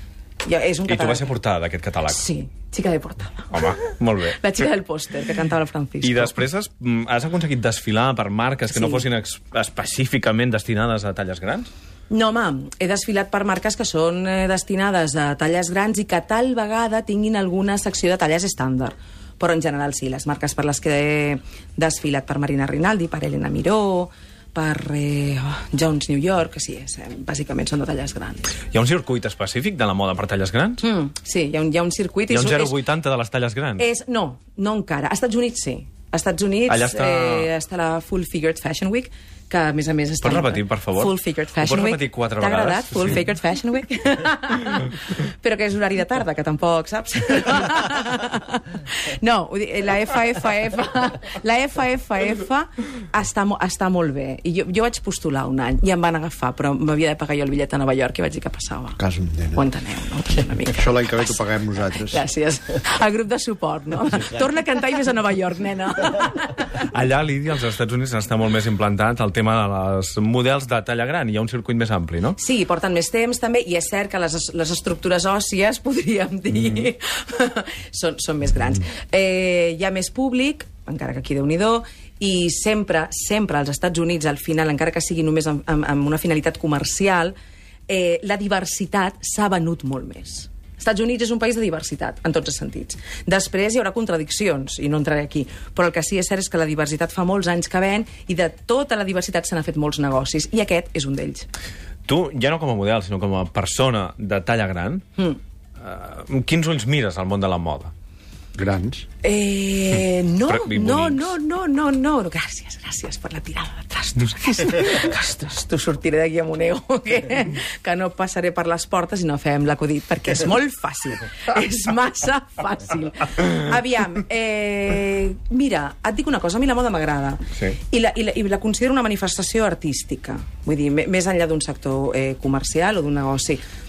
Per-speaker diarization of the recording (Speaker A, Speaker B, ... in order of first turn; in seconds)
Speaker A: 0.4-1.3, 2.1-6.3, 8.7-9.0, 12.1-28.5, 30.8-32.8, 33.8-59.0, 59.5-61.4, 62.0-66.7, 72.4-87.3, 87.9-101.5, 109.2-133.6
Speaker B: 0.9-2.2, 3.5-4.4, 6.0-11.7, 28.7-30.8, 32.3-33.8, 36.7-37.5, 40.2-43.2, 66.8-72.4, 102.0-105.0, 105.8-107.9, 110.5-111.3
Speaker C: 59.0-59.6, 60.7-62.2, 108.5-109.0